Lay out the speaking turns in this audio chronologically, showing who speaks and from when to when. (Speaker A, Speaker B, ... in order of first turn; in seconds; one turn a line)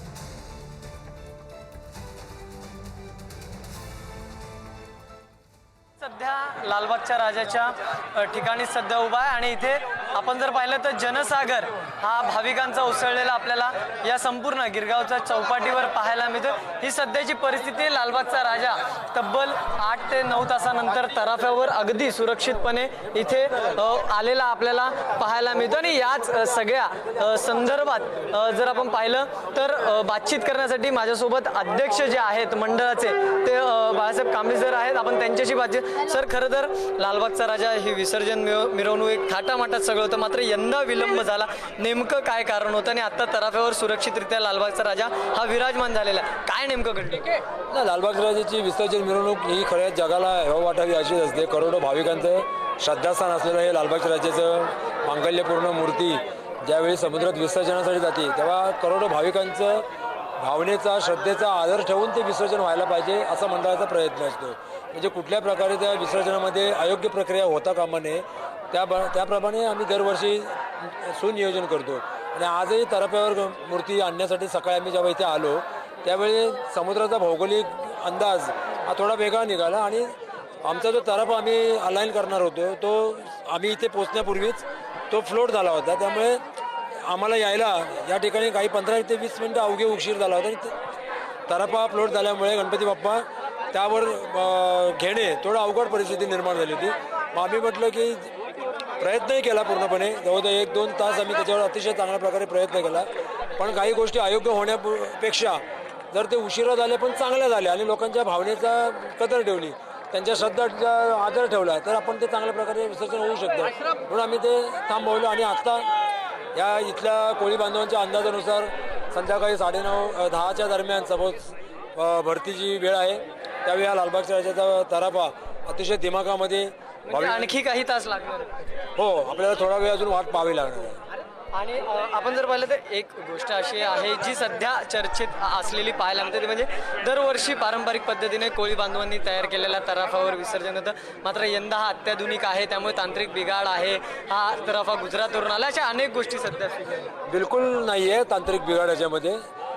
Speaker A: 6.0-47.3
Speaker B: 47.7-59.8
Speaker B: 60.4-86.4
Speaker B: 87.0-90.7
Speaker B: 91.5-98.3
Speaker B: 99.0-115.9
Speaker B: 116.5-127.5
Speaker A: 127.1-128.5
Speaker B: 128.9-131.0
Speaker A: 131.5-147.1
Speaker B: 147.3-149.4